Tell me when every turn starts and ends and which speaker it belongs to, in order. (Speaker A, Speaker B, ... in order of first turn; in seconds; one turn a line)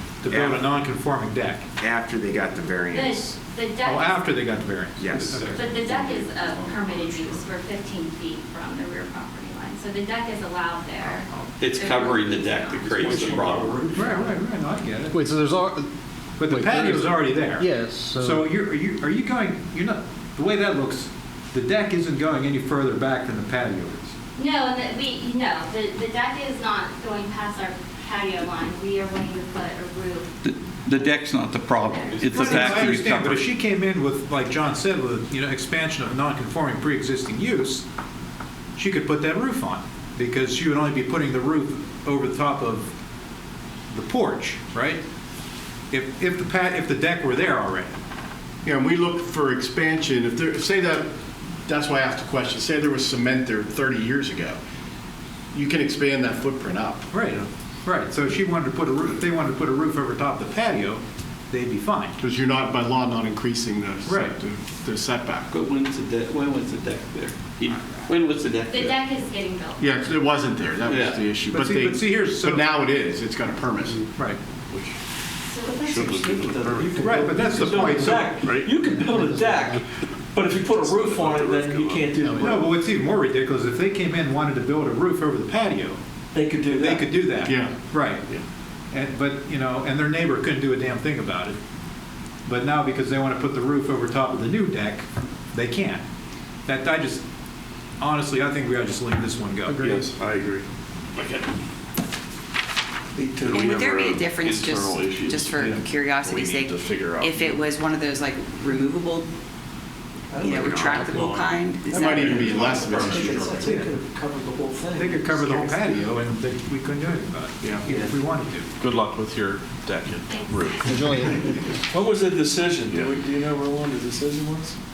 Speaker A: 0.2-1.6
Speaker B: 0.3-0.7
Speaker B: 1.8-3.4
Speaker C: 2.9-4.3
Speaker A: 3.8-5.6
Speaker B: 5.0-7.4
Speaker C: 5.5-13.4
Speaker B: 11.0-11.5
Speaker D: 11.6-14.0
Speaker A: 13.9-15.3
Speaker E: 15.1-15.5
Speaker A: 16.4-24.1
Speaker E: 16.5-16.9
Speaker E: 17.5-18.4
Speaker C: 24.4-30.3
Speaker D: 30.4-33.4
Speaker C: 31.7-32.7
Speaker A: 32.3-37.8
Speaker A: 38.8-42.9
Speaker A: 43.9-45.0
Speaker A: 45.9-47.9
Speaker F: 48.6-51.1
Speaker F: 51.6-54.6
Speaker F: 55.5-57.1
Speaker A: 57.1-62.2
Speaker F: 62.2-65.5
Speaker A: 64.0-64.3
Speaker D: 65.5-69.0
Speaker B: 67.6-68.1
Speaker C: 68.7-69.9
Speaker F: 69.8-74.1
Speaker D: 70.9-71.2
Speaker A: 71.5-72.7
Speaker C: 75.5-76.3
Speaker G: 75.6-82.7
Speaker H: 75.9-79.2
Speaker A: 77.0-78.3
Speaker H: 80.6-82.1
Speaker A: 82.4-86.0
Speaker G: 86.3-87.1
Speaker A: 86.7-88.3
Speaker F: 87.4-87.7
Speaker A: 88.9-91.6
Speaker A: 92.5-96.0
Speaker A: 96.7-97.2
Speaker A: 98.0-100.0
Speaker H: 99.7-100.6
Speaker H: 101.2-101.5
Speaker G: 103.1-103.7
Speaker H: 103.4-107.6
Speaker I: 103.5-109.3
Speaker G: 110.3-115.6
Speaker I: 110.4-112.5
Speaker B: 110.6-111.0
Speaker F: 111.9-113.8
Speaker A: 113.0-113.9
Speaker A: 114.9-118.7
Speaker H: 118.8-121.4
Speaker C: 120.2-121.1
Speaker E: 120.9-121.2
Speaker G: 121.3-124.8